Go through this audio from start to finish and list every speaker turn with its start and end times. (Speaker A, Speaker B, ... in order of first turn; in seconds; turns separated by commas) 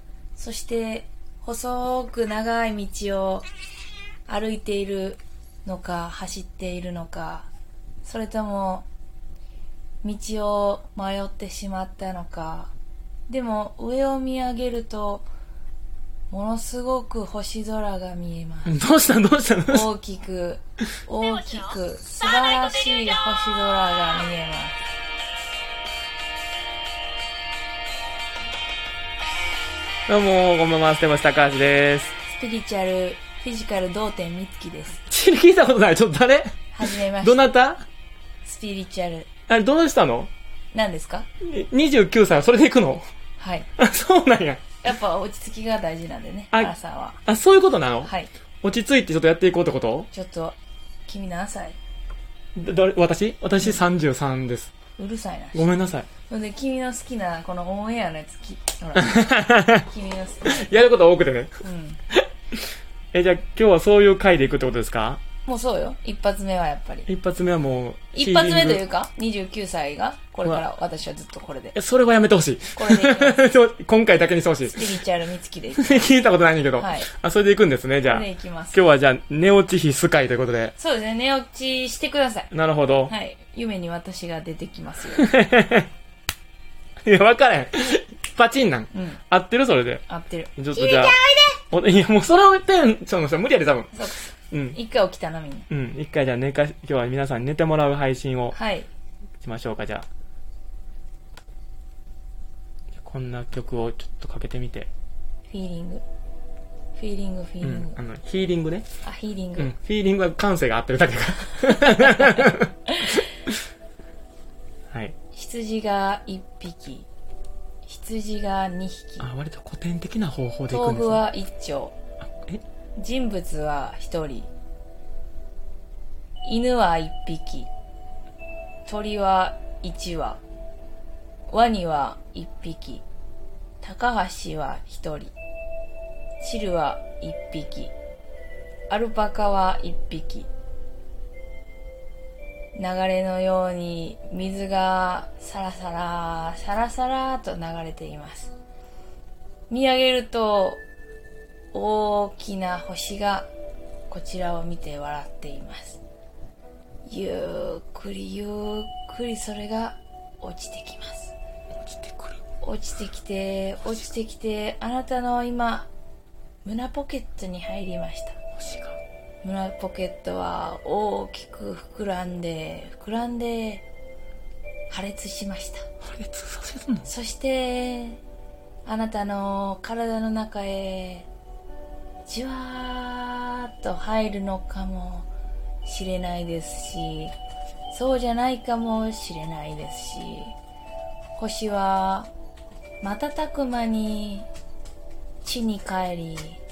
Speaker A: 0.3-3.5, Speaker A: 4.3-7.5, Speaker A: 8.0-8.9, Speaker A: 10.0-12.7, Speaker A: 13.3-15.3, Speaker A: 16.3-18.8, Speaker B: 18.7-19.9, Speaker A: 19.7-24.9, Speaker B: 30.1-32.2, Speaker A: 32.2-35.0, Speaker B: 35.1-37.9, Speaker A: 36.7-37.4, Speaker A: 38.4-39.3, Speaker B: 39.5-40.3, Speaker A: 40.7-41.3, Speaker B: 41.4-43.1, Speaker A: 43.4-43.7, Speaker B: 43.8-44.8, Speaker A: 44.8-47.2, Speaker B: 47.2-50.1, Speaker A: 48.0-48.3, Speaker A: 50.1-51.8, Speaker B: 52.6-54.7, Speaker A: 55.0-55.7, Speaker B: 55.5-56.1, Speaker A: 56.3-60.8, Speaker B: 59.0-59.9, Speaker B: 60.5-61.6, Speaker A: 61.6-62.0, Speaker B: 62.1-65.2, Speaker A: 65.5-67.1, Speaker B: 67.1-68.8, Speaker A: 68.1-71.8, Speaker B: 71.8-75.0, Speaker A: 72.8-73.4, Speaker A: 74.7-76.1, Speaker B: 75.8-80.8, Speaker A: 76.8-77.1, Speaker A: 78.0-78.8, Speaker A: 80.8-82.5, Speaker B: 82.5-83.1, Speaker A: 83.1-85.3, Speaker B: 85.2-85.9, Speaker B: 87.0-90.0, Speaker A: 88.9-89.2, Speaker A: 90.1-91.6, Speaker B: 90.6-94.0, Speaker A: 93.9-95.7, Speaker B: 94.5-94.8, Speaker B: 95.7-98.6, Speaker A: 98.5-98.9, Speaker B: 99.4-100.1, Speaker B: 102.9-104.9, Speaker A: 105.5-106.0, Speaker A: 107.0-108.0, Speaker B: 107.6-108.9, Speaker A: 109.0-109.7, Speaker B: 109.6-112.7, Speaker A: 112.9-113.2, Speaker B: 114.9-115.2, Speaker A: 115.3-117.1, Speaker A: 117.8-119.3, Speaker B: 119.2-121.2, Speaker A: 120.7-122.0, Speaker B: 122.3-122.6, Speaker A: 123.0-124.5, Speaker A: 126.4-127.7, Speaker A: 128.9-130.4, Speaker A: 131.5-133.0, Speaker A: 133.8-135.3, Speaker A: 136.4-137.9, Speaker A: 138.9-140.5, Speaker A: 142.8-148.5, Speaker A: 149.7-150.8, Speaker A: 151.7-153.5, Speaker A: 154.1-156.0, Speaker A: 157.1-161.3, Speaker B: 161.8-162.4, Speaker A: 162.6-165.9, Speaker A: 166.7-168.4, Speaker B: 168.6-169.0, Speaker A: 169.4-173.8, Speaker A: 174.9-175.9, Speaker B: 176.0-177.1, Speaker A: 177.1-178.2, Speaker A: 178.8-181.3, Speaker A: 182.3-185.3, Speaker A: 185.8-187.3, Speaker A: 187.9-190.6, Speaker A: 191.4-192.3, Speaker A: 193.0-194.5, Speaker A: 195.4-196.6